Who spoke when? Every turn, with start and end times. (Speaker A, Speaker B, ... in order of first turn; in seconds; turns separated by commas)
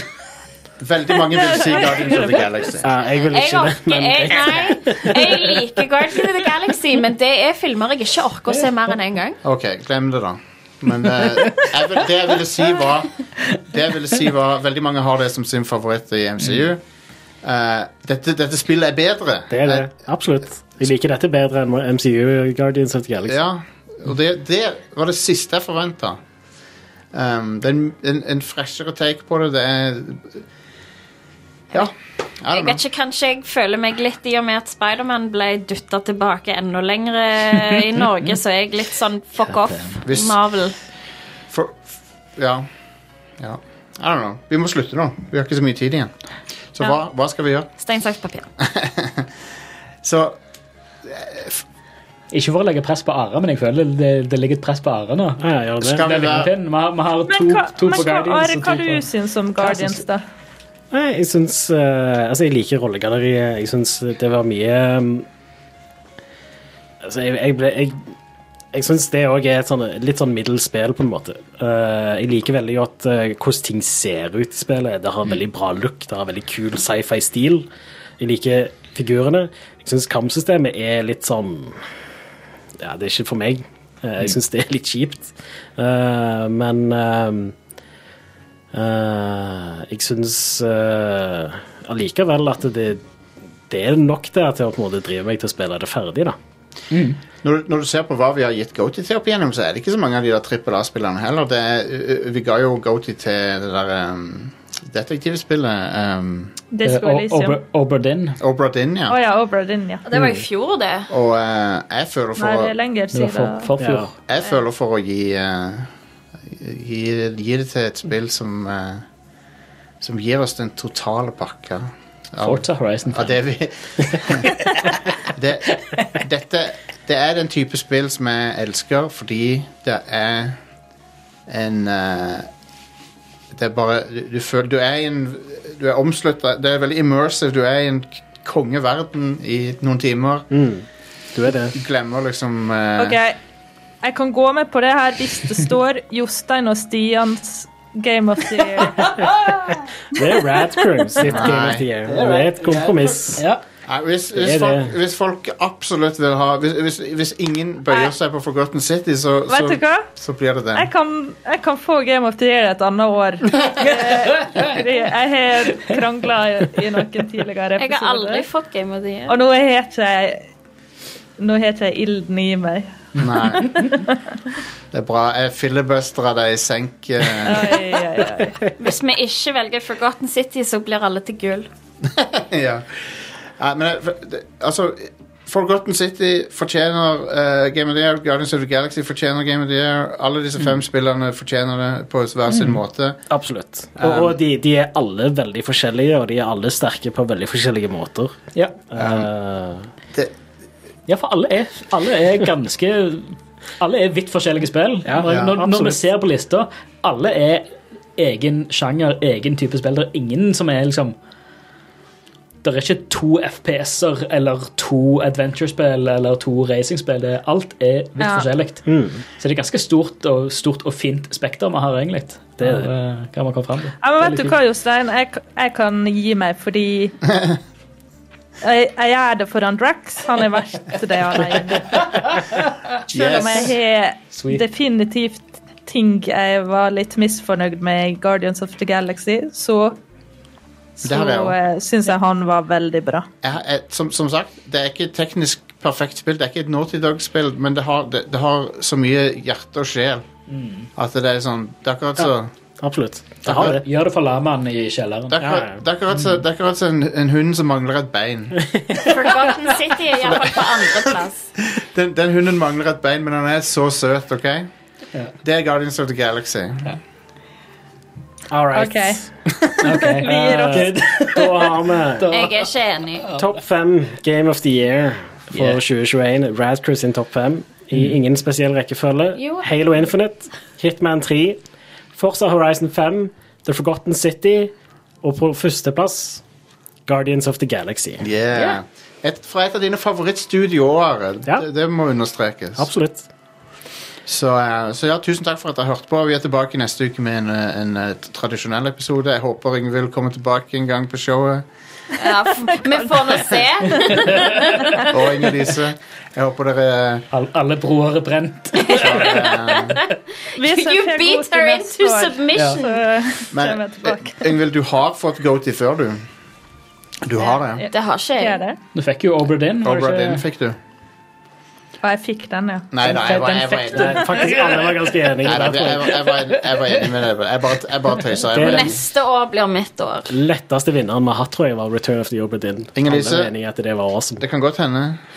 Speaker A: 0.8-2.9, Speaker B: 1.4-2.6, Speaker C: 2.8-5.7, Speaker D: 3.3-9.4, Speaker A: 9.4-16.8, Speaker A: 17.4-19.9, Speaker C: 19.5-23.4, Speaker A: 23.3-26.2, Speaker A: 27.1-30.4, Speaker A: 31.7-32.8, Speaker D: 32.5-40.8, Speaker A: 40.0-40.4, Speaker A: 41.5-42.7, Speaker A: 43.4-46.1, Speaker A: 46.7-47.7, Speaker D: 47.8-48.5, Speaker A: 48.6-49.3, Speaker A: 50.0-50.4, Speaker A: 51.1-51.6, Speaker E: 52.3-55.4, Speaker C: 55.4-56.1, Speaker A: 55.8-56.5, Speaker E: 55.9-59.1, Speaker B: 57.3-60.2, Speaker E: 59.6-60.0, Speaker C: 60.9-65.3, Speaker C: 67.0-68.1, Speaker C: 68.7-77.7, Speaker C: 78.2-81.8, Speaker C: 82.8-87.5, Speaker C: 88.7-93.0, Speaker C: 93.7-96.3, Speaker E: 96.9-97.2, Speaker A: 97.4-106.6, Speaker B: 106.7-107.6, Speaker E: 106.8-108.4, Speaker A: 108.4-109.2, Speaker B: 109.1-110.0, Speaker D: 110.0-111.1, Speaker C: 110.1-110.4, Speaker A: 111.1-112.7, Speaker B: 112.4-113.7, Speaker E: 113.1-114.1, Speaker C: 113.8-114.1, Speaker A: 114.3-115.9, Speaker A: 116.5-119.0, Speaker A: 120.0-130.6, Speaker E: 122.4-123.3, Speaker A: 131.5-132.5, Speaker A: 133.5-140.5, Speaker C: 140.5-141.8, Speaker A: 141.7-143.2, Speaker B: 143.0-143.4, Speaker B: 144.0-149.2, Speaker E: 148.6-149.8, Speaker C: 150.1-153.4, Speaker A: 151.2-151.8, Speaker E: 152.1-153.6, Speaker A: 153.8-160.9, Speaker C: 154.3-154.9, Speaker B: 159.5-160.0, Speaker B: 160.7-168.4, Speaker E: 163.8-164.8, Speaker E: 165.6-166.0, Speaker D: 167.8-169.4, Speaker B: 169.3-170.4, Speaker B: 171.4-174.2, Speaker A: 173.2-173.8, Speaker A: 174.9-177.9, Speaker B: 177.4-178.6, Speaker D: 178.8-181.7, Speaker A: 182.1-183.0, Speaker A: 183.6-193.2, Speaker E: 192.5-192.8, Speaker C: 193.3-198.4, Speaker A: 194.0-194.4, Speaker C: 198.9-199.9, Speaker A: 199.0-199.2, Speaker E: 201.1-211.2, Speaker C: 205.1-206.0, Speaker A: 205.2-205.6, Speaker E: 212.6-224.6, Speaker B: 218.2-218.5, Speaker C: 218.8-219.2, Speaker C: 222.6-222.9, Speaker B: 224.0-227.2, Speaker B: 228.6-232.4, Speaker E: 231.9-232.8, Speaker A: 233.1-233.7, Speaker B: 233.1-240.0, Speaker E: 234.3-234.6, Speaker B: 241.0-243.3, Speaker A: 241.0-241.6, Speaker A: 243.4-250.2, Speaker E: 250.5-250.9, Speaker A: 250.9-252.5, Speaker C: 252.2-253.8, Speaker A: 253.5-253.8, Speaker E: 253.5-255.5, Speaker A: 255.3-258.7, Speaker C: 255.4-255.8, Speaker D: 259.0-261.4, Speaker A: 260.2-264.7, Speaker A: 265.4-266.9, Speaker C: 268.5-269.2, Speaker B: 268.7-269.2, Speaker E: 269.8-272.6, Speaker B: 269.8-271.3, Speaker C: 270.3-272.5, Speaker D: 272.3-273.3, Speaker E: 273.2-273.5, Speaker C: 273.3-281.6, Speaker E: 275.5-275.8, Speaker D: 279.3-279.7, Speaker C: 282.1-286.4, Speaker C: 287.1-288.3, Speaker A: 288.2-292.9, Speaker C: 292.8-293.3, Speaker A: 294.2-301.6, Speaker D: 302.2-304.9, Speaker B: 302.7-303.3, Speaker B: 303.8-304.3, Speaker E: 304.1-305.1, Speaker B: 304.8-305.1, Speaker A: 305.1-307.3, Speaker E: 307.3-310.1, Speaker A: 308.9-310.0, Speaker D: 308.9-313.0, Speaker B: 310.6-314.5, Speaker E: 312.5-312.8, Speaker A: 313.5-316.2, Speaker A: 317.2-317.9, Speaker B: 317.4-318.8, Speaker D: 317.9-318.6, Speaker E: 318.9-320.4, Speaker A: 319.8-320.8, Speaker B: 322.0-322.9, Speaker A: 322.9-324.3, Speaker E: 323.0-325.5, Speaker C: 323.9-326.2, Speaker A: 325.4-328.9, Speaker E: 326.1-327.1, Speaker C: 328.5-329.0, Speaker D: 328.5-330.3, Speaker C: 330.3-334.4, Speaker A: 332.9-333.5, Speaker A: 334.4-335.2